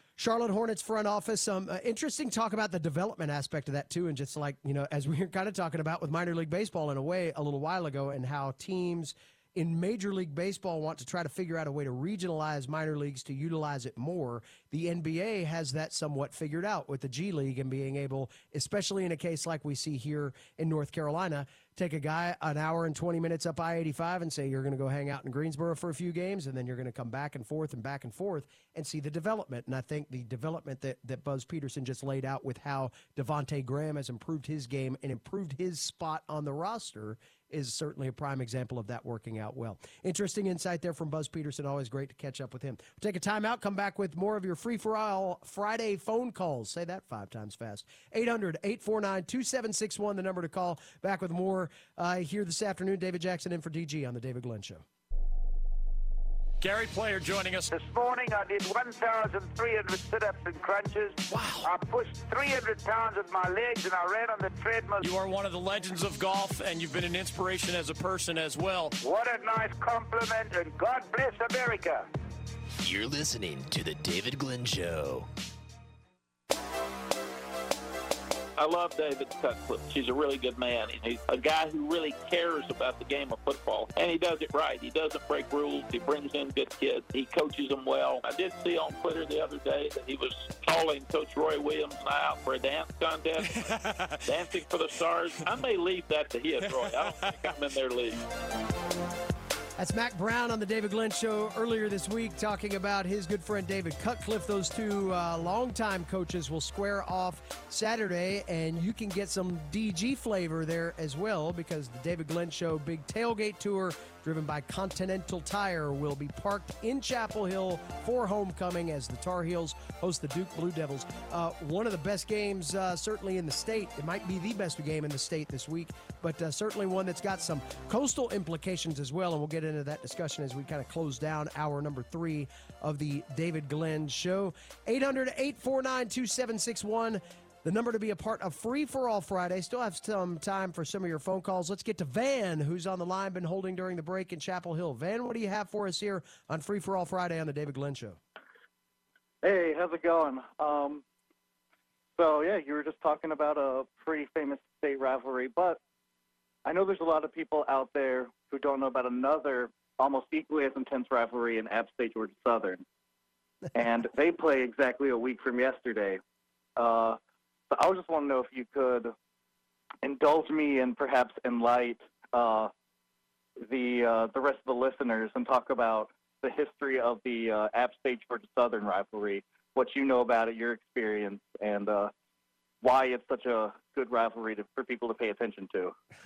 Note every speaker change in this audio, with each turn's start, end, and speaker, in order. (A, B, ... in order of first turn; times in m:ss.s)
0:00.2-0:54.8 A
0:56.6-0:57.7 B
0:57.7-1:05.1 C
1:01.3-1:01.7 A
1:05.0-1:09.0 B
1:09.0-1:12.1 C
1:12.8-1:15.3 D
1:18.6-1:38.2 E
1:39.8-2:28.2 A
2:29.4-2:31.0 F
2:32.2-2:35.8 F
2:36.6-2:42.8 F
2:43.7-2:46.2 F
2:46.8-2:47.2 F
2:47.7-2:49.2 F
2:50.0-2:52.7 F
2:53.6-3:02.1 F
3:02.8-3:05.9 F